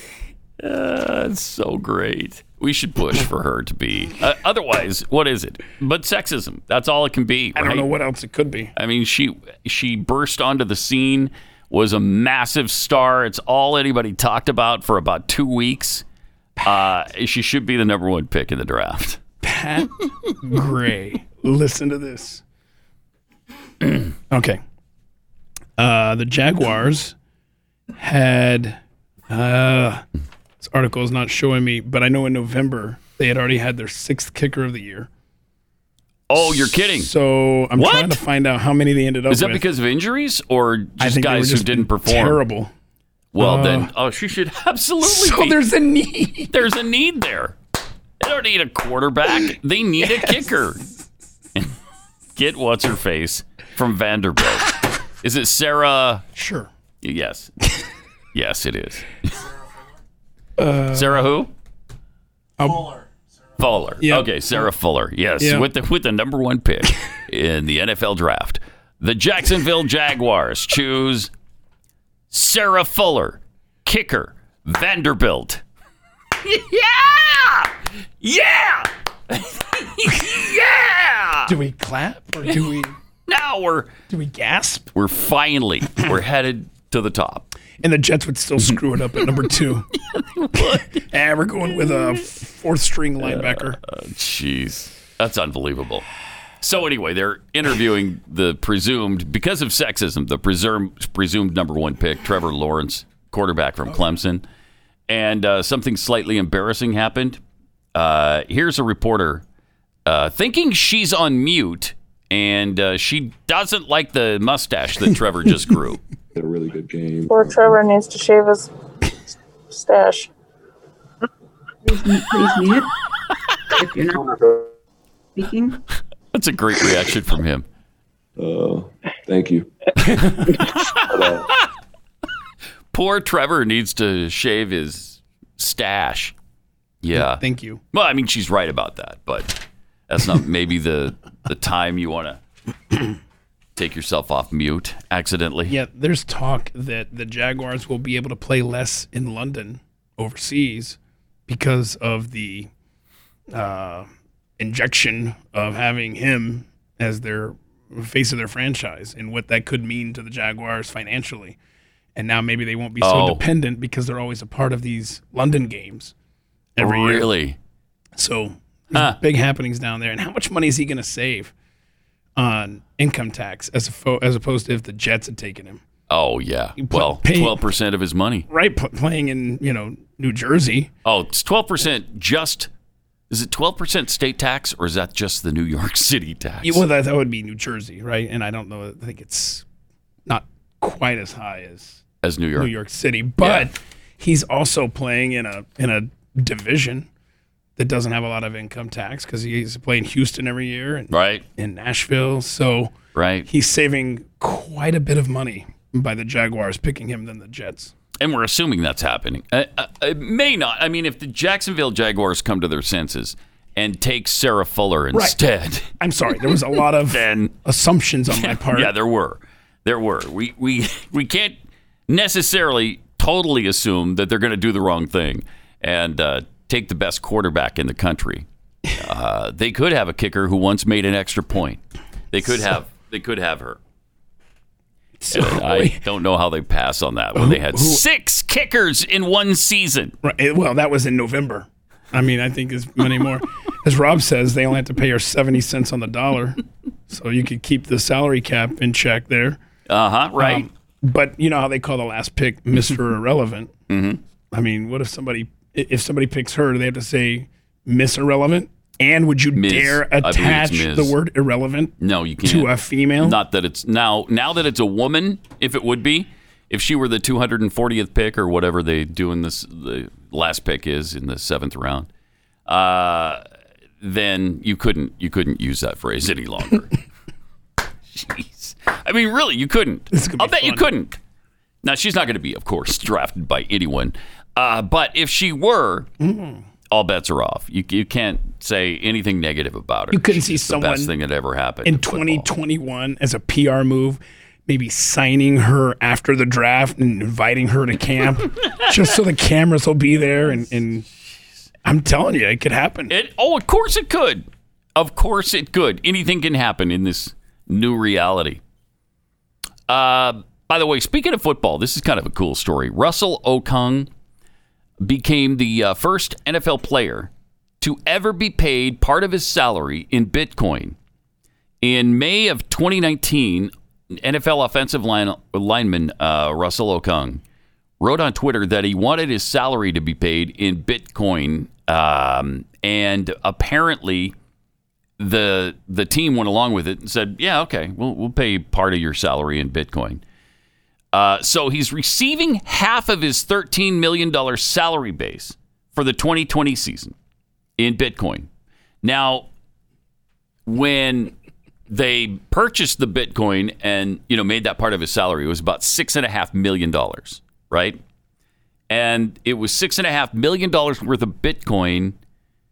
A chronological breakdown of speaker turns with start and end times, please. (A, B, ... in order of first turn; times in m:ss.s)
0:00.6-0:07.9 A
0:07.5-0:08.7 B
0:08.7-0:16.0 A
0:16.6-0:19.2 A
0:19.4-0:22.4 B
0:24.3-0:24.6 B
0:25.8-0:27.1 B
0:28.0-0:30.0 B
0:30.6-0:35.1 B
0:36.3-0:37.1 A
0:36.4-0:39.6 B
0:37.7-0:38.2 A
0:39.3-0:42.4 A
0:41.0-0:42.7 B
0:43.3-0:45.6 A
0:43.4-0:43.9 B
0:45.0-0:46.6 B
0:46.5-0:47.6 A
0:48.2-0:50.9 A
0:52.3-0:56.2 A
0:56.3-0:56.7 B
0:57.0-0:57.7 A
0:58.3-0:59.5 A
1:00.6-1:01.2 B
1:00.9-1:01.5 A
1:02.6-1:03.0 B
1:03.6-1:11.3 A
1:04.0-1:04.3 B
1:05.4-1:05.7 B
1:12.3-1:15.6 A
1:16.4-1:21.5 A
1:21.4-1:22.9 B
1:23.2-1:23.9 A
1:24.1-1:24.9 B
1:24.9-1:27.5 A
1:27.8-1:29.9 B
1:30.1-1:31.0 A
1:30.9-1:33.8 B
1:31.8-1:32.2 A
1:33.2-1:36.0 A
1:36.6-1:44.4 A
1:45.1-1:47.4 A
1:47.9-1:49.4 A
1:50.0-1:56.0 A
1:56.3-1:57.8 C
1:57.3-1:58.7 D
1:59.7-2:00.3 D
2:01.8-2:02.9 E
2:03.7-2:04.7 E
2:05.4-2:05.8 E
2:06.3-2:07.6 A
2:08.4-2:11.5 C
2:10.2-2:11.6 A
2:12.9-2:16.3 A
2:17.0-2:22.4 A
2:17.2-2:17.8 B
2:23.8-2:25.8 A
2:25.7-2:32.7 B
2:33.5-2:34.1 B
2:34.6-2:41.6 B
2:42.2-2:46.1 B
2:43.0-2:43.4 A
2:46.8-2:47.3 B
2:46.8-2:47.6 A
2:48.2-2:51.5 B
2:52.4-2:55.8 B
2:56.1-2:58.5 A
2:56.8-2:57.7 B
2:58.5-3:00.9 B
3:01.0-3:02.7 A
3:03.3-3:06.8 A
3:06.6-3:09.6 B
3:10.3-3:12.0 B
3:12.2-3:12.7 A
3:12.6-3:17.1 B
3:13.4-3:13.7 A
3:17.8-3:22.9 B
3:21.1-3:21.4 A
3:23.1-3:23.5 A
3:23.5-3:27.9 B
3:28.2-3:35.9 A
3:35.1-3:35.4 B
3:36.0-3:38.9 B
3:37.1-3:37.6 A
3:38.3-3:53.8 A
3:55.2-3:56.0 B
3:55.3-4:00.1 A
3:57.3-3:58.0 B
4:00.2-4:09.6 B
4:09.9-4:10.7 A
4:10.4-4:13.7 B
4:13.9-4:14.2 A
4:14.5-4:23.4 B
4:19.5-4:21.2 A
4:22.0-4:32.1 A
4:32.6-4:33.4 A
4:34.0-4:36.9 A
4:38.1-4:41.2 A
4:40.1-4:40.9 B
4:41.8-4:46.1 A
4:46.2-4:46.6 B
4:46.9-4:52.4 A
4:50.1-4:51.1 B
4:51.8-5:01.0 B
4:58.6-4:59.0 A
5:01.8-5:03.1 B
5:03.1-5:08.6 A
5:09.9-5:14.1 A
5:15.0-5:21.0 A
5:21.8-5:27.4 A
5:28.0-5:34.3 A
5:35.2-5:40.2 A
5:41.1-5:47.1 A
5:47.8-5:48.5 A
5:49.0-5:49.5 A
5:50.6-5:51.3 A
5:51.9-5:58.0 A
5:58.9-6:02.2 A